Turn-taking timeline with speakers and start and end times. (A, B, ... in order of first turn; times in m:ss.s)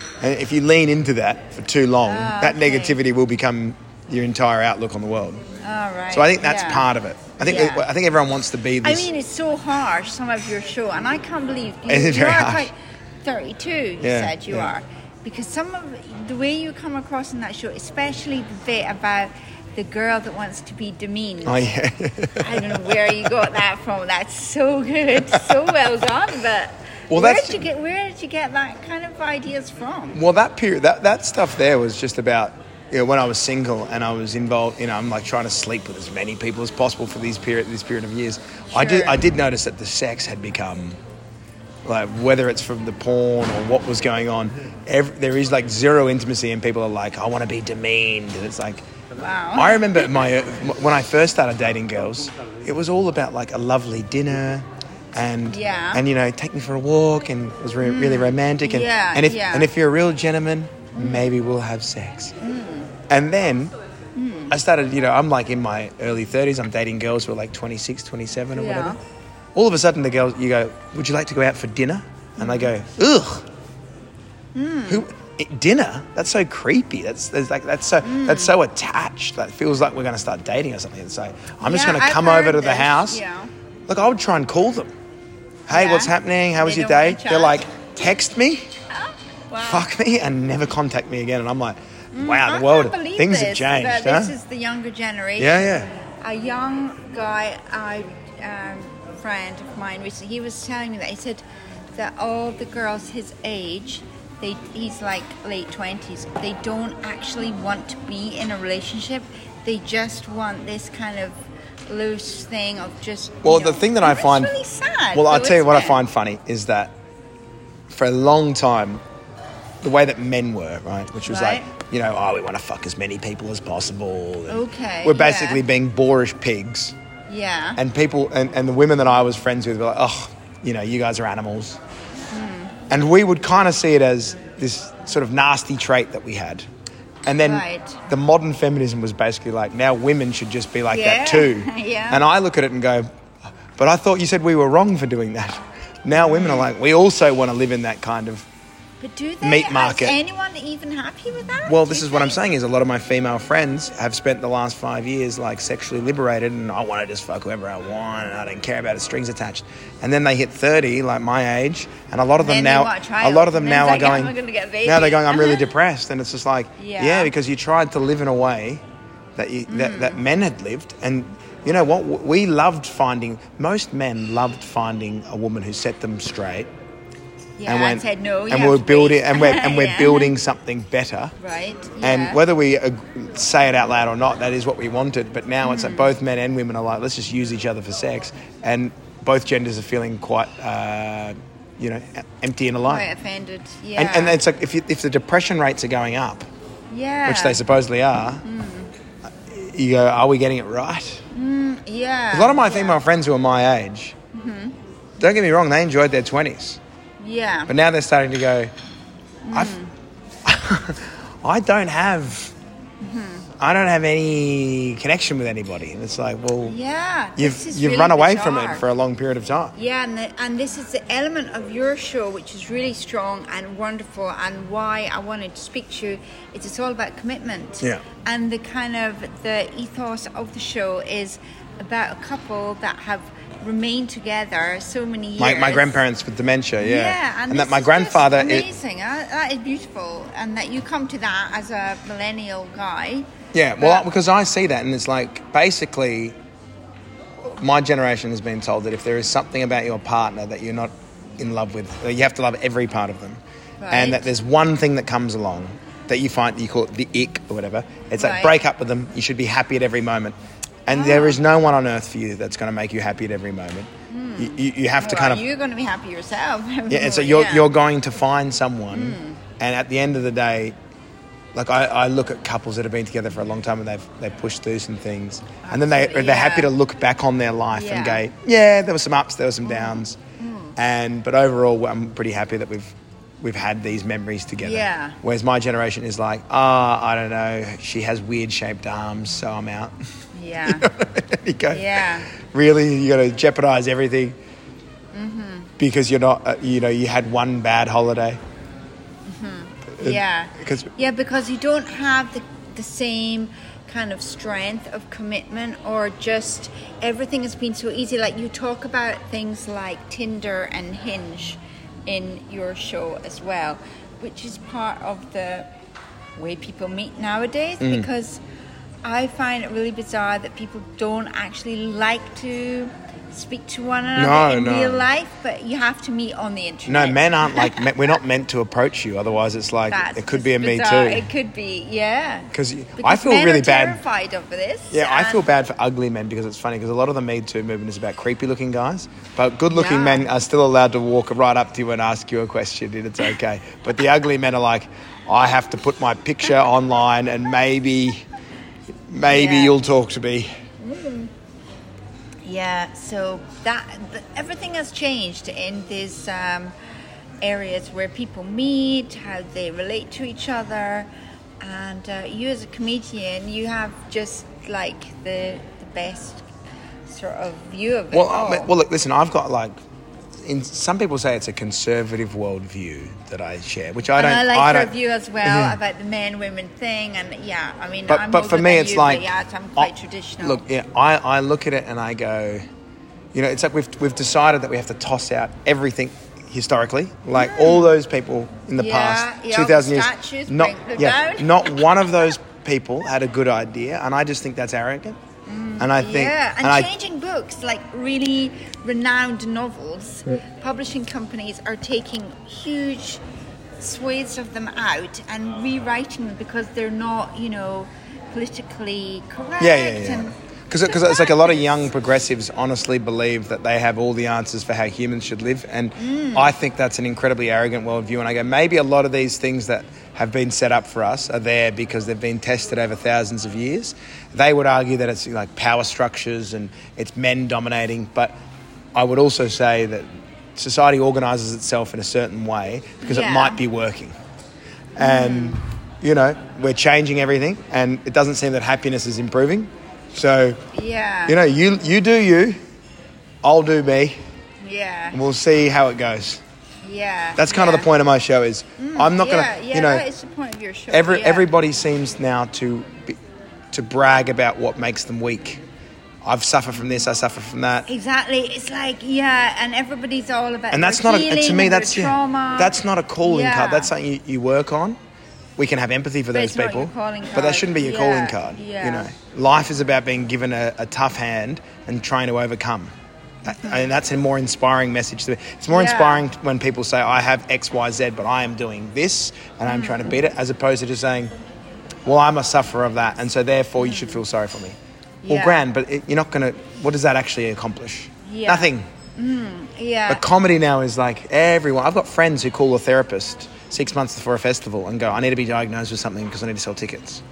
0:00.2-0:05.4 A
0:02.0-0:03.0 B
0:05.6-0:06.9 B
0:06.1-0:09.1 A
0:07.4-0:07.9 B
0:08.8-0:21.6 B
0:11.9-0:12.7 A
0:14.0-0:14.7 A
0:21.4-0:23.3 A
0:22.4-0:30.2 B
0:25.3-0:25.5 A
0:27.1-0:27.6 A
0:30.1-0:41.0 A
0:38.7-0:39.2 B
0:41.8-0:48.8 A
0:49.2-0:50.1 B
0:49.5-1:02.3 A
0:55.4-0:56.0 B
0:57.8-0:59.7 B
1:01.0-1:01.3 B
1:02.4-1:02.9 B
1:03.1-1:03.7 A
1:04.2-1:04.5 B
1:04.5-1:09.0 A
1:08.5-1:09.0 B
1:09.5-1:13.4 A
1:12.4-1:12.7 B
1:14.5-1:15.1 B
1:14.9-1:23.2 A
1:18.0-1:18.5 B
1:21.6-1:23.5 B
1:23.9-1:24.9 A
1:25.7-1:28.7 A
1:25.7-1:27.6 B
1:28.9-1:29.9 B
1:29.6-1:34.3 A
1:32.1-1:41.4 B
1:35.4-1:35.9 A
1:42.0-1:51.4 B
1:51.9-1:56.0 B
1:53.4-1:54.6 A
1:55.1-1:56.9 A
1:57.9-1:59.0 A
1:59.8-2:06.9 A
2:01.2-2:01.7 B
2:04.5-2:05.6 B
2:07.3-2:07.8 B
2:07.8-2:11.8 A
2:12.3-2:12.7 B
2:12.9-2:16.6 A
2:17.2-2:23.1 A
2:17.4-2:18.0 B
2:20.9-2:22.2 B
2:23.8-2:28.4 A
2:26.1-2:26.7 B
2:29.0-2:32.4 B
2:29.4-2:30.2 A
2:31.6-2:48.8 A
2:42.4-2:45.6 B
2:46.8-2:47.3 B
2:49.4-2:56.7 A
2:49.7-2:50.2 B
2:57.6-3:00.3 B
2:57.6-3:01.3 A
3:01.4-3:02.4 B
3:02.0-3:13.1 A
3:05.6-3:06.1 B
3:12.8-3:14.4 B
3:14.0-3:16.5 A
3:16.9-3:17.6 B
3:17.2-3:18.4 A
3:18.4-3:18.9 B
3:19.2-3:21.2 A
3:21.3-3:23.0 B
3:22.3-3:24.1 A
3:24.3-3:24.7 B
3:25.2-3:26.8 A
3:27.2-3:27.7 B
3:27.7-3:28.7 A
3:29.4-3:29.9 B
3:30.4-3:32.5 A
3:33.0-3:33.5 B
3:33.6-3:36.8 A
3:36.6-3:38.8 B
3:37.4-3:39.7 A
3:39.7-3:56.0 B
3:55.4-3:58.7 A
3:56.8-4:04.0 B
4:03.5-4:06.4 A
4:07.4-4:20.4 A
4:13.8-4:14.3 B
4:18.2-4:18.5 B
4:20.9-4:25.4 A
4:20.9-4:21.4 B
4:24.1-4:27.7 B
4:26.9-4:30.7 A
4:28.9-4:29.4 B
4:31.5-4:40.2 A
4:35.6-4:36.7 B
4:37.7-4:38.2 B
4:39.6-4:40.8 B
4:40.8-4:49.9 A
4:44.6-4:45.2 B
4:50.3-4:50.9 B
4:50.6-4:54.4 A
4:51.7-4:52.3 B
4:55.1-4:55.7 B
4:55.8-4:58.4 A
4:59.3-5:15.7 B
5:00.0-5:00.9 A
5:16.4-5:18.4 B
5:17.8-5:18.1 A
5:19.0-5:27.9 B
5:24.2-5:25.0 A
5:26.8-5:31.3 A
5:29.9-5:35.4 B
5:32.5-5:34.0 A
5:34.9-5:48.2 A
5:39.7-5:40.3 B
5:49.1-5:50.5 A
5:49.3-5:49.8 B
5:50.8-5:51.3 B
5:52.4-5:56.7 B
5:57.4-6:01.1 B
6:01.6-6:06.5 B
6:07.0-6:08.7 B
6:08.1-6:09.7 A
6:10.4-6:15.8 A
6:14.1-6:20.6 B
6:18.1-6:22.6 A
6:23.3-6:35.2 A
6:27.3-6:27.9 B
6:28.8-6:31.6 B
6:35.5-6:43.2 B
6:35.8-6:36.9 A
6:43.8-6:50.3 B
6:49.6-7:08.3 A
6:50.8-6:51.7 B
6:56.0-6:56.5 B
7:08.9-7:14.1 A
7:13.0-7:13.6 B
7:15.0-7:20.6 A
7:15.0-7:15.6 B
7:20.7-7:21.4 B
7:21.2-7:22.6 A
7:23.4-7:24.2 A
7:24.6-7:25.2 B
7:25.1-7:26.4 A
7:26.8-7:27.9 B
7:27.4-7:30.0 A
7:28.8-7:31.5 B
7:30.9-7:33.2 A
7:33.7-7:35.6 A
7:36.2-7:37.9 A
7:37.9-7:43.9 B
7:40.7-7:45.0 A
7:45.6-7:52.9 A
7:46.3-7:49.1 B
7:53.4-8:01.3 A
7:53.5-7:53.9 B
7:55.7-7:56.2 B
7:59.7-8:00.2 B
8:02.0-8:08.8 A
8:03.8-8:04.2 B
8:05.2-8:05.6 B
8:08.2-8:10.2 B
8:10.1-8:17.2 A